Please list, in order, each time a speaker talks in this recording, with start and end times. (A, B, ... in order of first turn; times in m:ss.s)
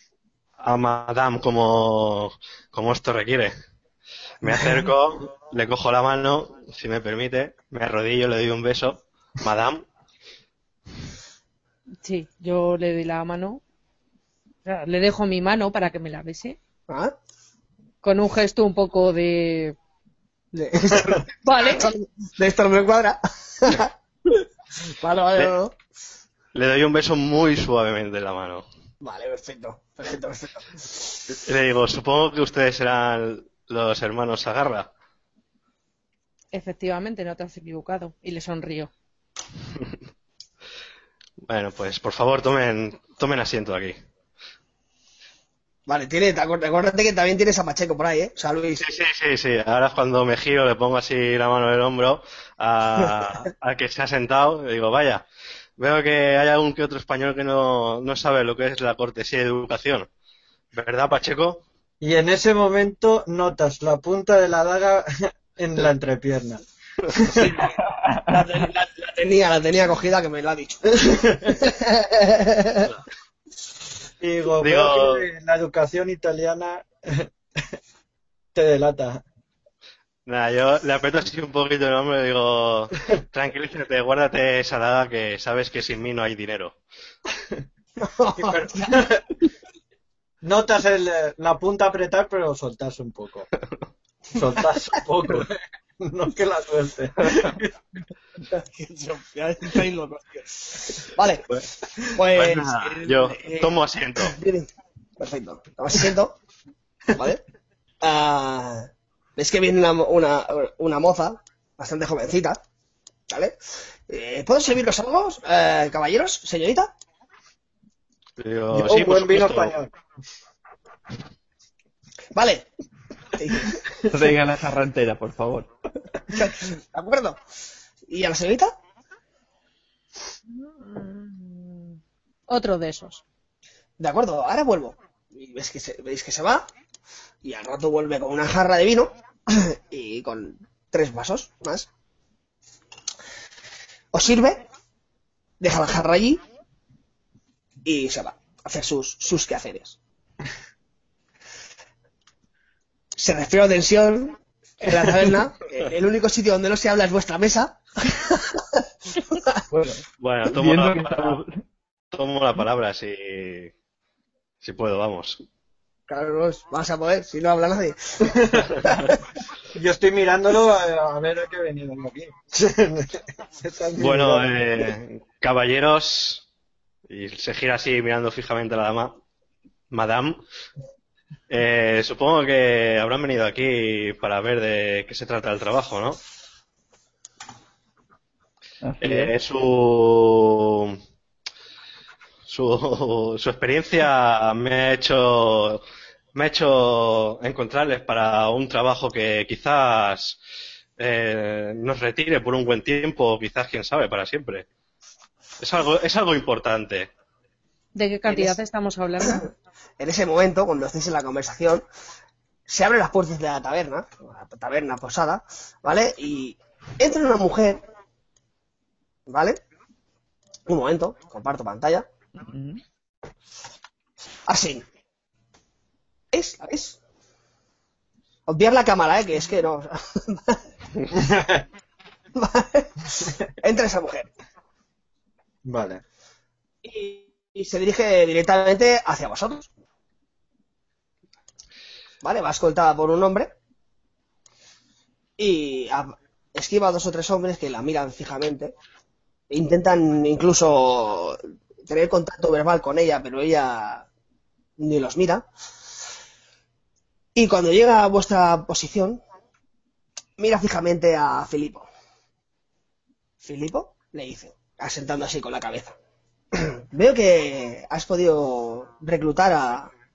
0:00.6-0:03.5 A
0:04.4-0:09.8 A
0:04.4-0:04.9 B
0:12.0-0:13.6 C
0:14.6-0:16.6 C
0:16.9-0:17.1 D
0:18.0-0:19.8 C
0:20.5-0:25.8 D
0:21.4-0:21.9 C
0:26.5-0:28.6 A
0:29.0-0:31.2 D
0:31.3-0:34.9 A
0:36.5-0:38.9 C
0:41.5-0:44.0 A
0:45.9-0:48.8 D
0:48.8-0:55.2 A
0:55.8-1:00.1 A
1:00.7-1:01.6 A
1:02.0-1:06.6 B
1:07.1-1:07.4 B
1:07.2-1:12.9 D
1:08.0-1:08.4 E
1:11.0-1:11.5 B
1:14.2-1:17.6 B
1:14.6-1:15.2 A
1:18.5-1:19.2 B
1:20.2-1:26.8 A
1:28.0-1:29.1 D
1:28.4-1:29.2 B
1:30.4-1:33.5 B
1:34.3-1:37.7 B
1:38.5-1:41.4 D
1:42.1-1:46.4 D
1:42.3-1:44.4 A
1:47.1-1:47.4 D
1:48.0-1:52.6 D
1:53.3-1:53.6 D
1:54.1-1:56.9 D
1:58.4-1:59.7 A
1:58.7-1:59.9 B
2:02.3-2:02.7 D
2:03.4-2:03.8 D
2:04.1-2:05.7 E
2:06.3-2:07.4 D
2:08.1-2:08.7 D
2:10.8-2:11.9 C
2:12.5-2:13.2 C
2:14.0-2:16.6 D
2:17.4-2:21.9 D
2:24.1-2:24.6 D
2:25.6-2:26.4 D
2:27.8-2:30.0 D
2:33.2-2:39.6 D
2:39.7-2:41.5 E
2:40.2-2:41.4 A
2:42.1-2:43.7 A
2:44.6-2:45.4 A
2:46.1-2:49.1 D
2:48.4-2:48.7 B
2:49.7-2:54.6 B
2:54.0-2:56.4 A
2:57.1-2:59.1 A
2:59.9-3:00.4 A
3:01.5-3:06.2 A
3:08.8-3:09.3 E
3:09.0-3:11.0 A
3:12.5-3:15.8 A
3:16.3-3:20.4 A
3:21.0-3:24.6 A
3:25.6-3:27.1 A
3:27.9-3:29.5 C
3:28.2-3:28.6 D
3:30.0-3:31.8 D
3:32.7-3:37.8 D
3:39.3-3:39.6 D
3:40.7-3:42.1 D
3:42.5-3:42.8 E
3:44.5-3:44.8 D
3:46.3-3:47.0 D
3:48.5-3:51.1 D
3:51.1-3:51.6 B
3:52.4-3:54.3 D
3:55.6-3:56.0 B
3:56.8-3:59.7 D
4:02.2-4:03.5 D
4:05.4-4:08.7 D
4:09.5-4:14.1 D
4:14.8-4:15.5 D
4:17.3-4:19.2 D
4:20.4-4:21.9 D
4:23.4-4:25.9 D
4:26.5-4:29.9 D